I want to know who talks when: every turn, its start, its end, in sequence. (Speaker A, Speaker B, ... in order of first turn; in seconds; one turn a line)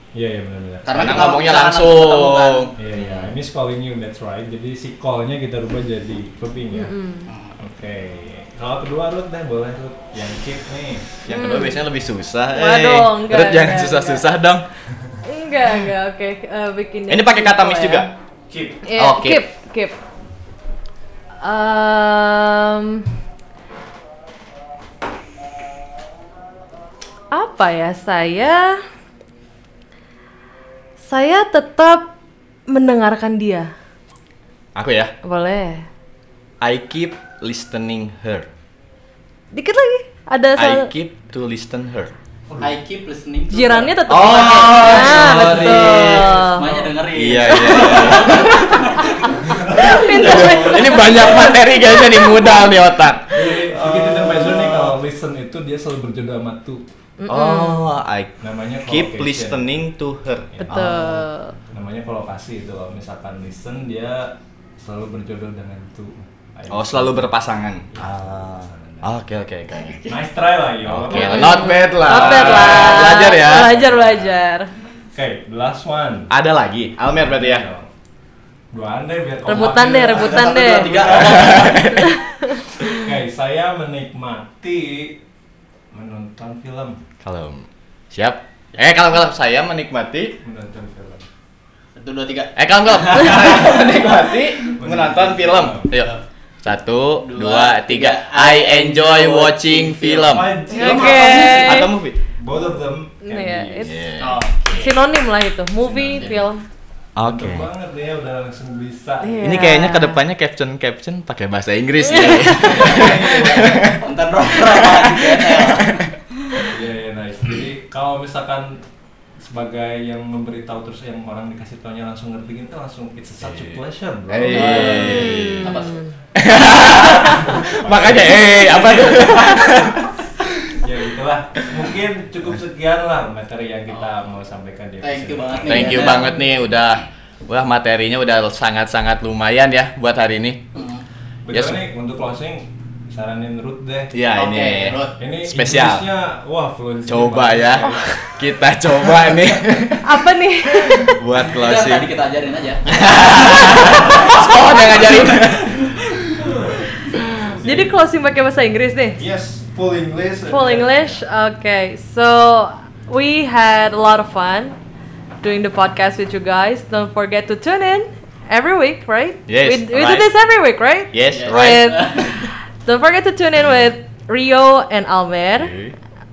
Speaker A: 0.1-1.1
Speaker B: 0.8-2.8
Speaker C: 0.9-3.3
Speaker A: 2.8-7.0
Speaker D: 6.7-7.3
Speaker B: 7.3-7.5
Speaker A: 7.6-11.2
Speaker C: 11.2-14.7
Speaker D: 11.3-11.8
Speaker D: 12.5-14.3
Speaker D: 15.2-18.1
Speaker C: 17.1-18.1
Speaker A: 18.5-18.9
Speaker D: 18.8-20.0
Speaker C: 19.0-19.5
Speaker D: 21.4-23.1
Speaker D: 27.3-28.8
Speaker D: 31.0-32.1
Speaker D: 32.7-33.7
Speaker C: 34.8-35.1
Speaker D: 35.2-35.9
Speaker C: 36.6-38.5
Speaker D: 39.5-40.9
Speaker C: 40.6-42.1
Speaker A: 42.5-42.7
Speaker B: 42.6-45.3
Speaker D: 43.5-46.7
Speaker C: 44.1-46.5
Speaker A: 45.1-46.3
Speaker B: 46.6-51.5
Speaker C: 47.1-48.6
Speaker D: 47.4-49.2
Speaker A: 49.3-51.2
Speaker D: 49.8-52.7
Speaker C: 50.1-55.0
Speaker A: 53.3-56.8
Speaker D: 57.2-57.9
Speaker C: 57.3-60.5
Speaker A: 58.4-59.9
Speaker A: 60.5-67.3
Speaker D: 60.6-61.6
Speaker C: 66.7-70.2
Speaker A: 67.9-69.1
Speaker A: 70.1-74.3
Speaker C: 70.9-73.8
Speaker D: 71.1-74.7
Speaker A: 75.1-76.3
Speaker C: 76.3-77.7
Speaker A: 77.1-77.9
Speaker A: 78.7-81.8
Speaker D: 79.5-82.8
Speaker B: 80.1-81.9
Speaker C: 81.1-82.1
Speaker A: 82.9-85.2
Speaker A: 85.9-87.0
Speaker C: 87.2-90.4
Speaker A: 90.4-91.3
Speaker B: 92.0-93.8
Speaker C: 92.6-96.1
Speaker A: 94.7-95.9
Speaker B: 95.9-96.2
Speaker C: 96.6-102.2
Speaker B: 97.2-101.4
Speaker A: 100.3-104.0
Speaker D: 100.7-101.9
Speaker D: 103.2-104.1
Speaker C: 103.8-104.4
Speaker B: 104.2-105.1
Speaker D: 104.7-106.6
Speaker A: 105.8-106.4
Speaker B: 106.1-106.4
Speaker C: 107.2-107.7
Speaker A: 107.2-109.7
Speaker D: 109.2-110.2
Speaker C: 109.4-114.0
Speaker D: 112.0-113.1
Speaker A: 112.4-114.0
Speaker B: 112.8-116.6
Speaker C: 114.6-115.7
Speaker A: 116.6-118.8
Speaker A: 119.4-125.4
Speaker C: 123.4-125.8
Speaker B: 124.5-126.0
Speaker D: 125.0-126.1
Speaker C: 126.4-130.1
Speaker A: 126.5-129.9
Speaker B: 128.7-129.7
Speaker A: 130.7-136.3
Speaker B: 133.9-134.2
Speaker B: 135.0-136.4
Speaker C: 135.6-140.6
Speaker B: 140.7-141.1
Speaker A: 141.5-144.2
Speaker C: 141.5-141.8
Speaker C: 144.1-146.1
Speaker B: 144.3-145.2
Speaker A: 145.2-148.4
Speaker C: 147.1-150.1
Speaker D: 150.0-151.2
Speaker C: 151.1-152.1
Speaker B: 151.4-155.9
Speaker C: 152.9-155.7
Speaker D: 153.4-154.9
Speaker A: 156.1-157.9
Speaker D: 157.6-159.2
Speaker A: 159.2-161.2
Speaker D: 160.5-164.8
Speaker D: 165.4-175.7
Speaker C: 169.5-170.3
Speaker C: 171.1-171.9
Speaker B: 171.3-172.5
Speaker C: 175.6-176.0